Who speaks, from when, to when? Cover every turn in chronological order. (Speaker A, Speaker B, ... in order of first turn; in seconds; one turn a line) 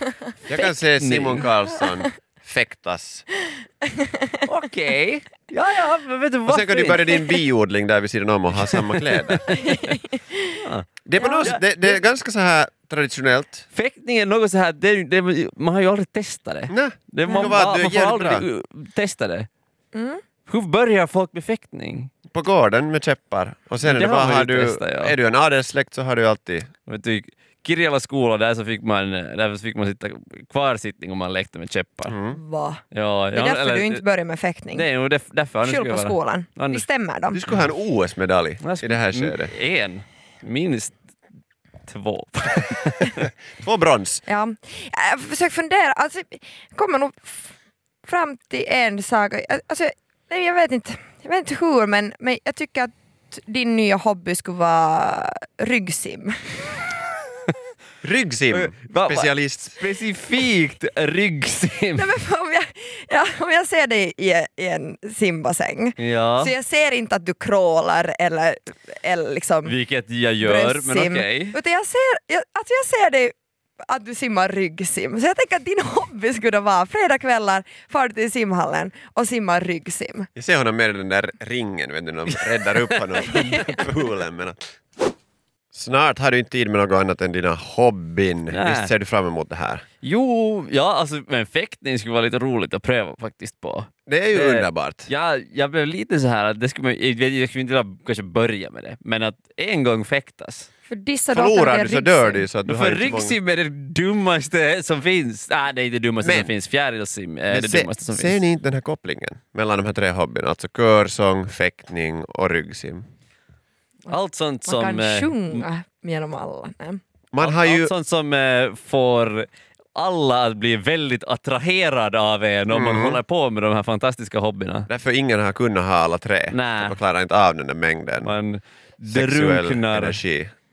Speaker A: 0.5-3.2
Speaker B: 0.6-1.5
Speaker B: 4.5-7.4
Speaker A: 6.5-9.5
Speaker B: 8.6-9.9
Speaker C: 9.5-10.5
Speaker B: 10.6-10.8
Speaker A: 11.0-13.7
Speaker C: 11.2-11.5
Speaker B: 11.4-12.0
Speaker B: 13.7-19.5
Speaker A: 16.7-18.4
Speaker C: 19.9-20.2
Speaker B: 20.5-22.1
Speaker A: 22.3-26.7
Speaker B: 23.8-25.1
Speaker B: 26.9-32.1
Speaker A: 32.1-32.4
Speaker C: 32.3-32.8
Speaker B: 32.9-34.0
Speaker C: 33.3-34.9
Speaker B: 34.7-36.8
Speaker C: 35.6-37.4
Speaker A: 37.3-39.5
Speaker B: 38.6-41.0
Speaker B: 41.9-43.3
Speaker A: 43.6-44.2
Speaker C: 44.3-47.5
Speaker C: 48.0-56.8
Speaker A: 58.0-59.8
Speaker B: 58.5-62.1
Speaker C: 61.9-69.8
Speaker B: 66.0-66.5
Speaker B: 69.6-71.5
Speaker C: 70.4-73.3
Speaker C: 73.9-80.3
Speaker A: 80.3-84.7
Speaker B: 82.7-83.8
Speaker A: 85.7-89.8
Speaker B: 88.5-88.9
Speaker B: 90.0-100.7
Speaker A: 94.1-95.1
Speaker C: 100.9-102.5
Speaker A: 101.3-103.4
Speaker B: 102.7-108.4
Speaker A: 106.2-106.5
Speaker A: 107.5-113.0
Speaker B: 114.1-115.7
Speaker C: 114.7-117.0
Speaker A: 117.3-117.9
Speaker B: 117.4-124.9
Speaker A: 122.7-123.2
Speaker A: 124.9-128.3
Speaker B: 126.5-127.0
Speaker B: 128.2-130.2
Speaker A: 129.1-130.5